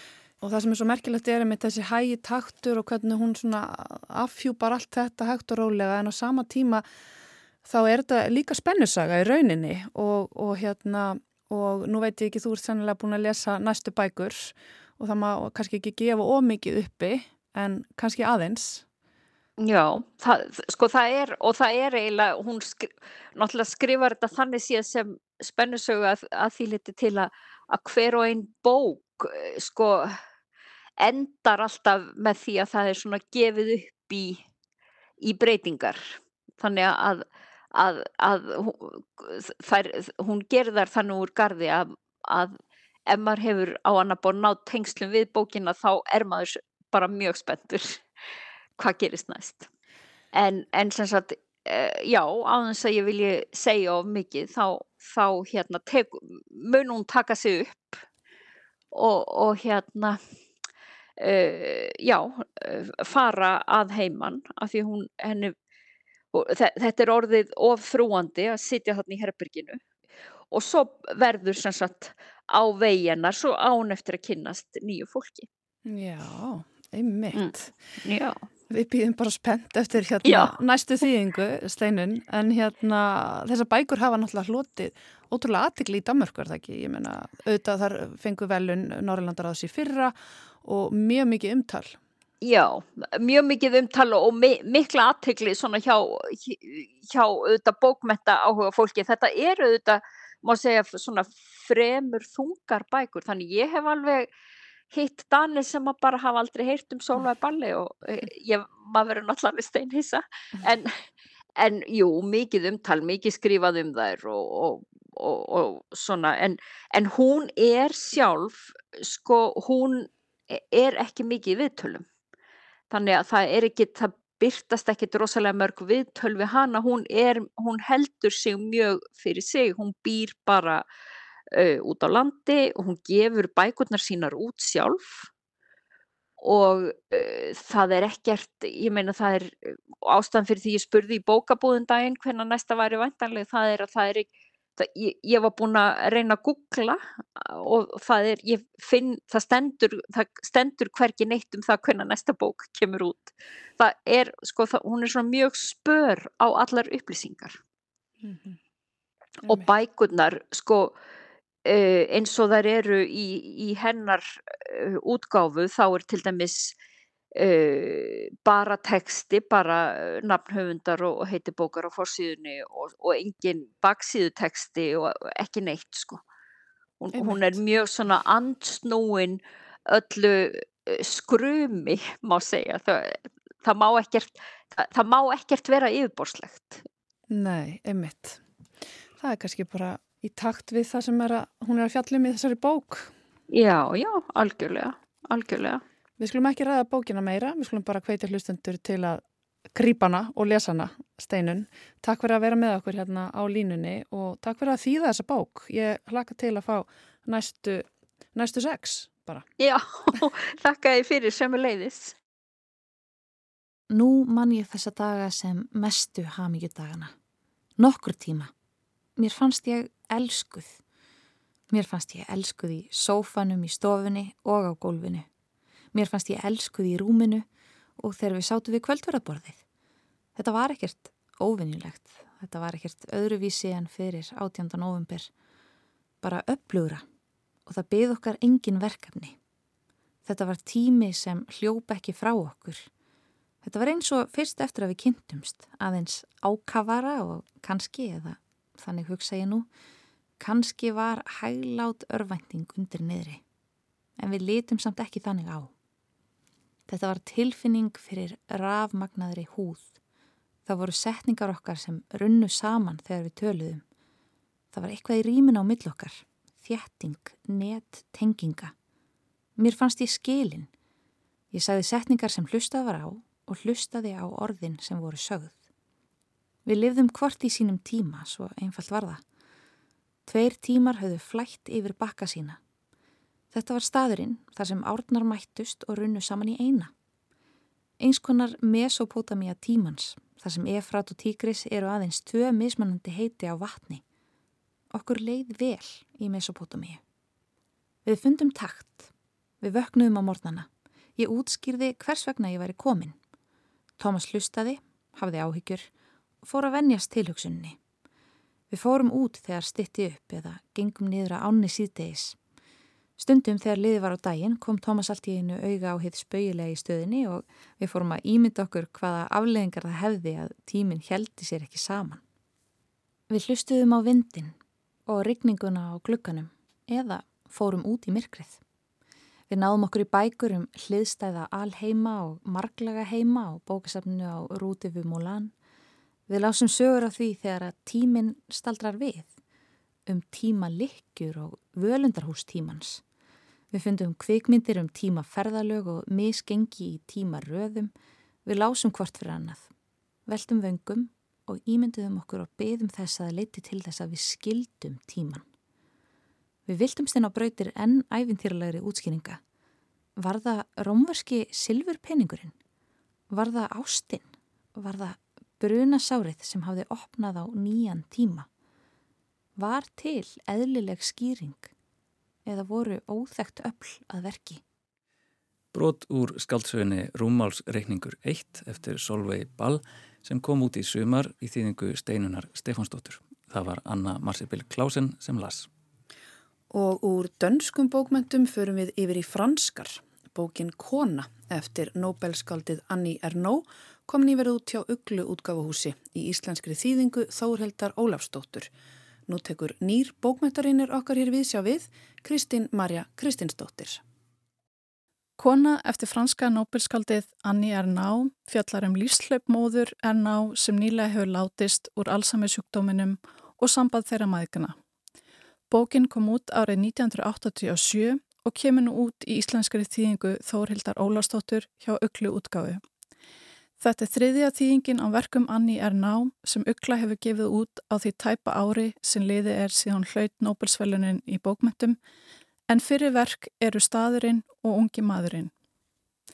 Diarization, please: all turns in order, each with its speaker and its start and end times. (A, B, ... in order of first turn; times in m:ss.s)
0:00.4-0:06.8 A
0:07.6-0:18.8 A
0:19.6-0:30.2 B
0:31.0-0:34.4 B
0:35.2-0:42.5 B
0:43.1-0:48.0 B
0:48.8-0:49.7 B
0:50.3-0:58.0 B
0:58.9-1:00.2 B
1:01.2-1:05.5 B
1:06.3-1:09.8 B
1:10.5-1:15.5 B
1:15.8-1:17.7 A
1:17.3-1:18.4 B
1:18.7-1:32.0 A
1:20.2-1:20.5 B
1:32.4-1:44.3 B
1:44.9-1:50.9 B
1:51.6-2:02.0 B
2:02.9-2:10.8 B
2:11.5-2:15.3 B
2:16.4-2:37.6 B
2:38.2-2:38.6 A
2:39.5-2:40.9 B
2:41.6-2:46.7 B
2:47.3-2:56.2 B
2:57.0-3:06.8 B
2:57.1-2:57.6 A
3:07.3-3:08.4 A
3:09.2-3:13.1 A
3:13.5-3:15.8 B
3:16.2-3:19.2 A
3:19.7-3:29.4 A
3:29.6-3:32.2 B
3:33.9-3:37.1 C
3:37.8-3:38.5 C
3:39.2-3:40.8 C
3:41.7-3:45.3 C
3:45.9-3:47.4 C
3:48.0-3:49.6 C
3:50.4-3:55.3 C
3:56.2-3:57.0 C
3:57.6-3:59.4 C
4:00.2-4:02.9 C
4:03.6-4:09.7 C
4:10.4-4:13.4 C
4:14.2-4:15.7 C
4:16.9-4:19.9 C
4:20.6-4:23.8 C
4:24.7-4:28.7 C
4:29.6-4:30.7 C
4:31.5-4:35.6 C
4:36.6-4:39.2 C
4:40.2-4:42.6 C
4:43.5-4:46.9 C
4:48.0-4:54.0 C
4:54.9-4:57.0 C
4:58.0-5:03.2 C
5:04.0-5:05.9 C
5:06.4-5:07.8 C
5:08.7-5:12.4 C
5:13.2-5:22.2 C
5:23.3-5:24.5 C
5:25.1-5:28.6 C
5:29.5-5:35.5 C
5:36.3-5:39.3 C
5:40.0-5:43.0 C
5:43.7-5:47.9 C
5:48.4-5:49.7 C
5:50.2-5:55.4 C
5:56.7-5:59.4 C
6:00.2-6:02.5 C
6:03.3-6:08.5 C
6:09.6-6:11.7 C
6:12.4-6:14.6 C
6:15.7-6:25.7 D
6:26.7-6:38.7 A
6:39.3-6:44.0 A
6:45.4-6:54.7 E
6:55.7-7:02.8 E
7:03.8-7:12.0 E
7:12.7-7:15.5 E